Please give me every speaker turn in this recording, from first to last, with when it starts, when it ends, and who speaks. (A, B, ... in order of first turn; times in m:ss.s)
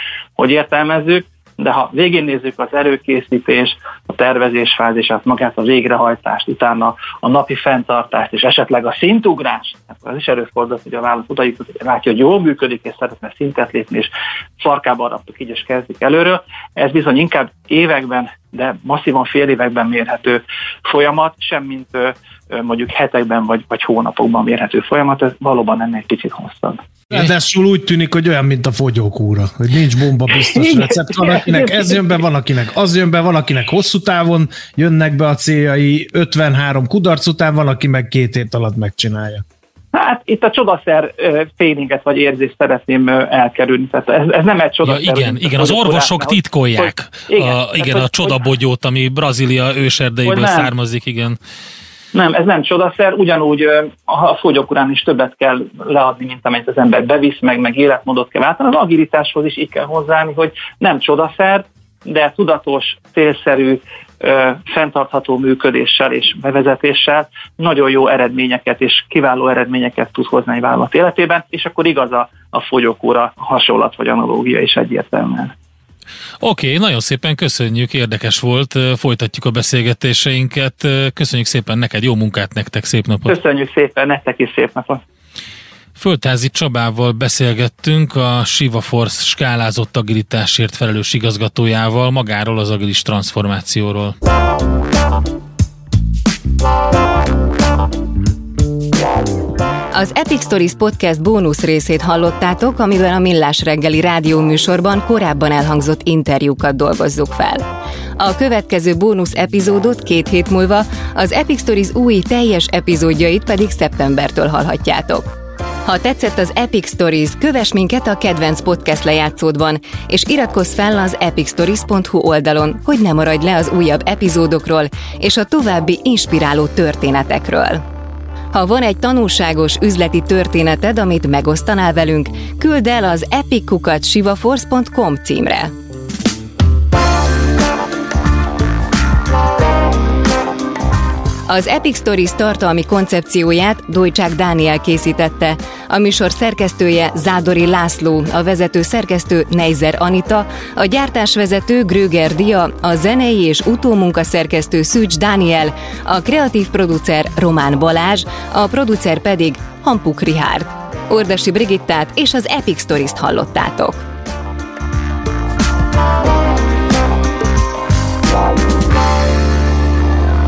0:00.4-0:26.8 A
0:27.1-0:39.4 B
0:30.3-0:32.0 A
0:39.9-0:48.5 A
0:44.8-0:51.4 C
0:50.2-0:50.7 A
0:52.1-1:15.5 A
1:16.4-1:23.4 C
1:23.3-1:25.0 A
1:26.0-1:34.1 C
1:39.9-1:47.6 D
1:48.2-1:55.2 D
1:55.8-2:07.8 D
2:08.5-2:15.7 D
2:21.5-2:44.0 D